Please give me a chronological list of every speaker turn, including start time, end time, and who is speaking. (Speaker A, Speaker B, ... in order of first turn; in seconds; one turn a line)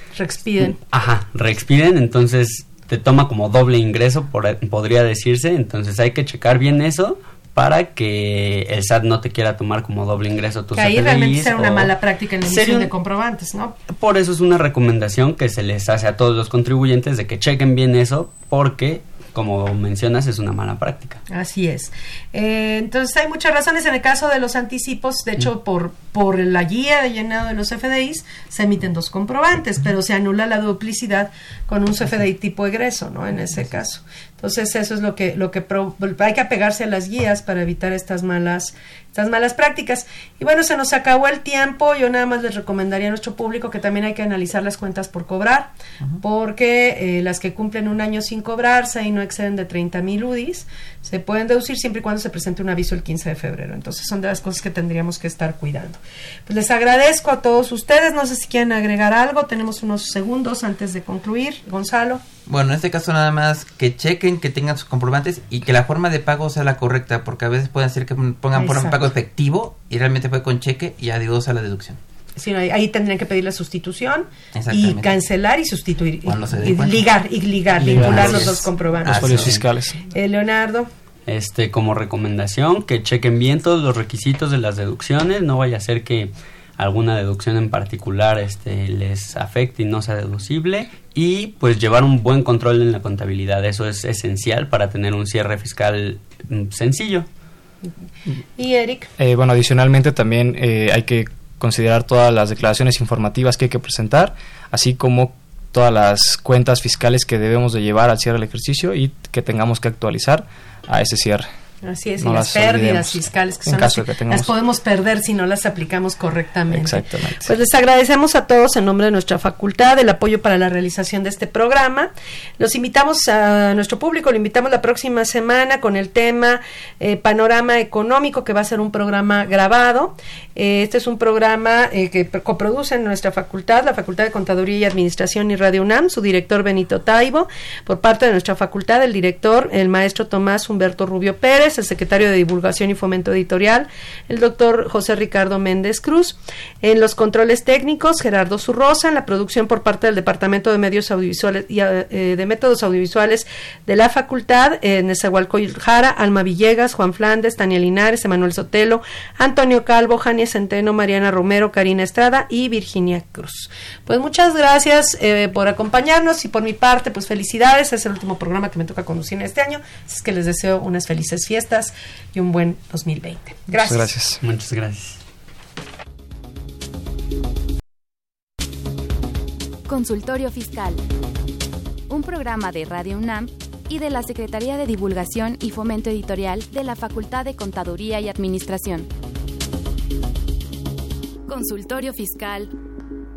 Speaker A: 0.1-0.8
Speaker B: 0.9-12.9
Speaker A: 10.8-13.8
Speaker B: 13.9-21.2
Speaker A: 21.3-62.2
Speaker C: 62.5-72.0
Speaker A: 68.5-69.0
Speaker A: 72.4-79.5
Speaker C: 74.5-75.2
Speaker C: 76.2-77.1
Speaker D: 77.8-80.0
Speaker C: 77.9-79.6
Speaker A: 80.1-80.9
Speaker B: 81.3-97.3
Speaker A: 98.6-99.1
Speaker D: 99.2-111.5
Speaker A: 111.8-174.1
Speaker D: 112.2-114.5
Speaker D: 116.7-117.5
Speaker D: 173.7-174.4
Speaker B: 174.4-175.2
Speaker E: 179.9-181.0
Speaker E: 182.1-189.1
Speaker E: 191.5-192.7